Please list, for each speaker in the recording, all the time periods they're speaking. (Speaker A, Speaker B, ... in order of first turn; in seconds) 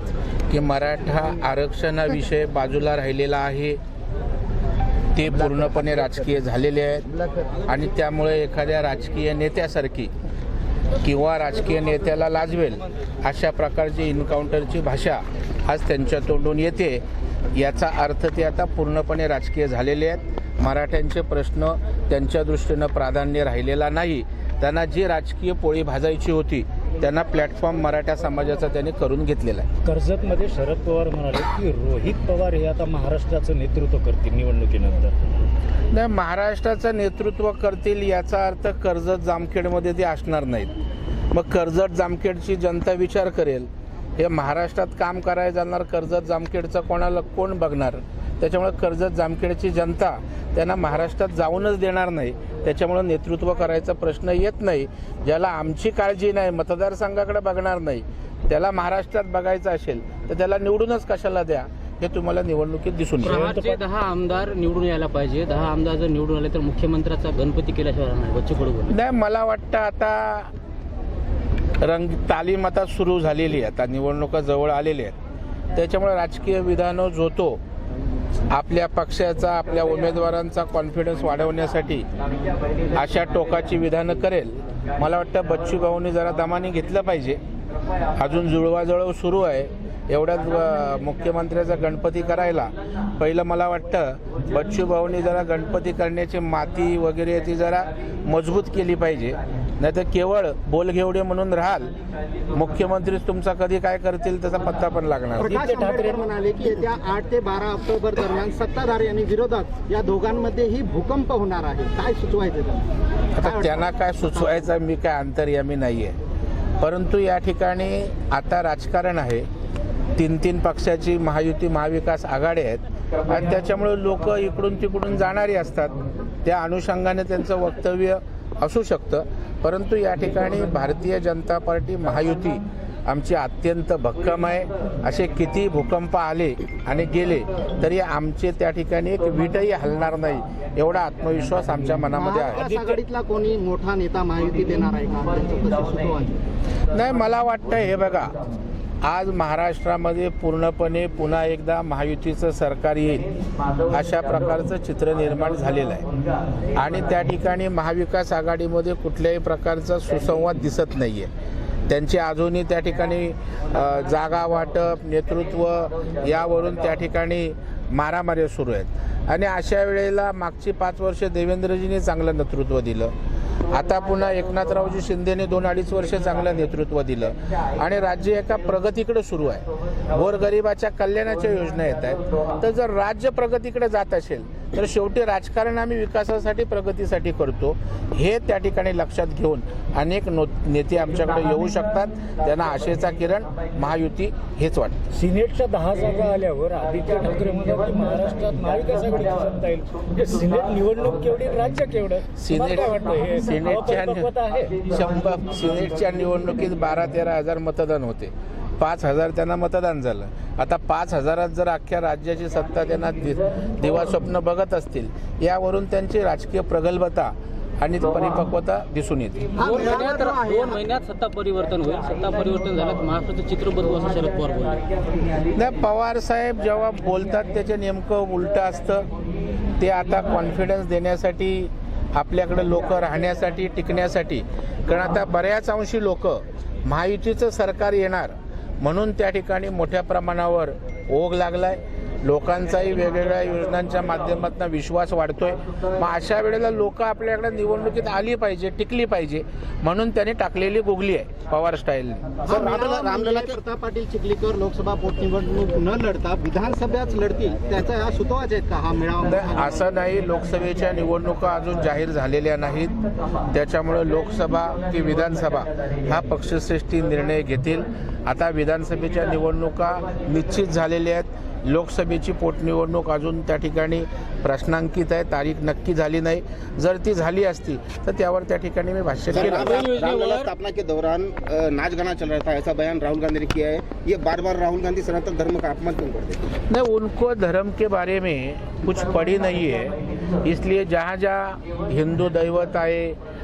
Speaker A: 0.5-3.8, 5.1-7.1, 7.7-10.1, 11.0-29.7, 35.9-40.7, 41.3-63.5, 68.9-70.5, 71.8-75.2, 75.7-77.6, 78.5-82.1, 82.9-87.4, 88.2-101.9, 102.5-105.5, 113.4-116.2, 116.8-119.5, 120.2-125.9, 126.4-142.6, 146.9-148.4, 149.0-153.3, 153.9-156.1, 156.7-161.3, 161.9-173.1, 173.7-195.0, 202.4-204.3, 204.8-219.9, 225.5-229.1, 229.8-252.4, 259.2-262.9, 263.5-279.9, 286.7-293.2
Speaker B: 29.9-35.2, 63.2-63.8, 105.4-106.2, 142.5-143.0, 195.1-204.8
Speaker C: 63.2-69.0, 219.6-224.9, 279.4-280.5
Speaker D: 105.4-113.8, 114.3-114.7, 142.1-146.4, 219.6-220.8, 252.5-259.8
Speaker E: 252.5-253.6, 279.3-286.6